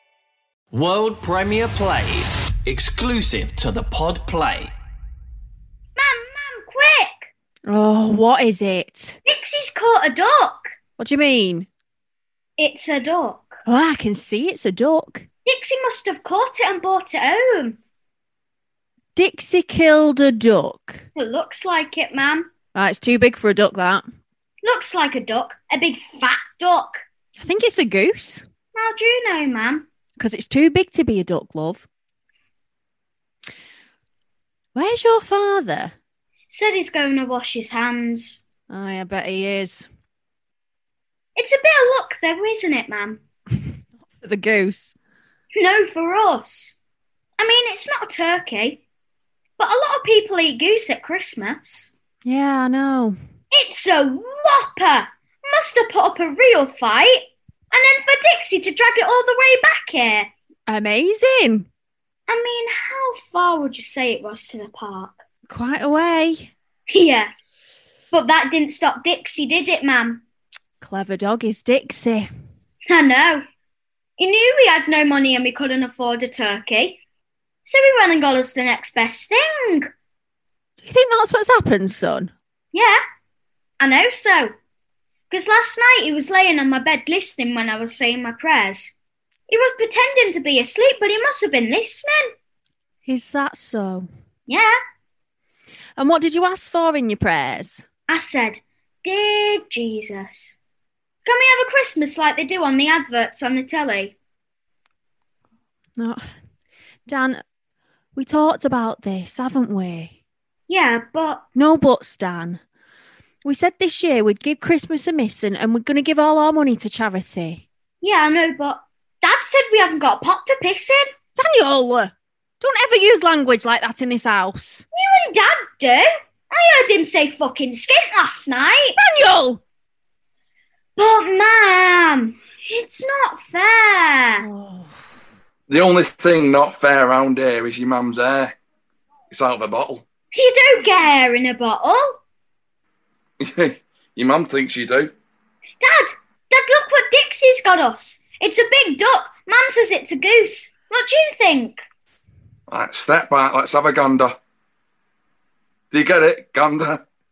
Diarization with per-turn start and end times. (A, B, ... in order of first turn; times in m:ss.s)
0:00.7-0:04.7 A
0:06.0-0:07.3 B
0:07.7-0:09.2 C
0:09.3-0:10.6 B
0:11.0-0:11.7 C
0:12.6-0:13.6 B
0:13.7-0:15.2 C
0:15.4-0:17.8 B
0:19.1-0:21.0 C
0:21.2-0:22.5 B
0:22.7-0:24.0 C
0:24.6-0:27.0 B
0:27.4-0:28.4 C
0:28.7-0:29.8 B
0:30.2-0:31.8 C
0:34.7-0:35.9 C
0:36.5-0:38.4 B
0:38.7-0:39.9 C
0:41.4-0:43.2 B
0:44.0-0:44.9 C
0:45.5-0:46.7 B
0:47.4-0:48.8 B
0:49.6-0:51.9 B
0:52.2-0:53.2 C
0:53.5-1:00.3 B
1:00.7-1:01.7 C
1:02.3-1:05.2 B
1:05.5-1:06.5 C
1:06.9-1:07.3 B
1:08.1-1:10.2 B
1:10.8-1:12.3 C
1:12.9-1:13.4 B
1:14.2-1:17.0 B
1:17.6-1:19.9 B
1:20.8-1:22.3 C
1:22.7-1:23.0 B
1:23.8-1:24.5 B
1:25.3-1:29.0 B
1:29.5-1:32.3 B
1:33.0-1:34.1 C
1:34.5-1:34.7 B
1:36.0-1:37.8 C
1:38.1-1:40.6 B
1:41.2-1:44.2 B
1:47.1-1:47.4 C
1:48.2-1:50.1 C
1:50.7-1:51.5 B
1:51.5-1:52.6 C
1:53.4-1:57.6 C
1:58.0-2:01.0 B
2:01.4-2:04.8 C
2:05.0-2:08.9 B
2:09.0-2:09.6 C
2:11.0-2:14.4 B
2:14.4-2:15.0 C
2:15.7-2:18.5 D
2:19.3-2:20.0 D
2:20.3-2:22.2 B
2:23.4-2:25.1 D
2:25.8-2:31.8 B
2:32.7-2:34.3 D
2:35.9-2:37.0 D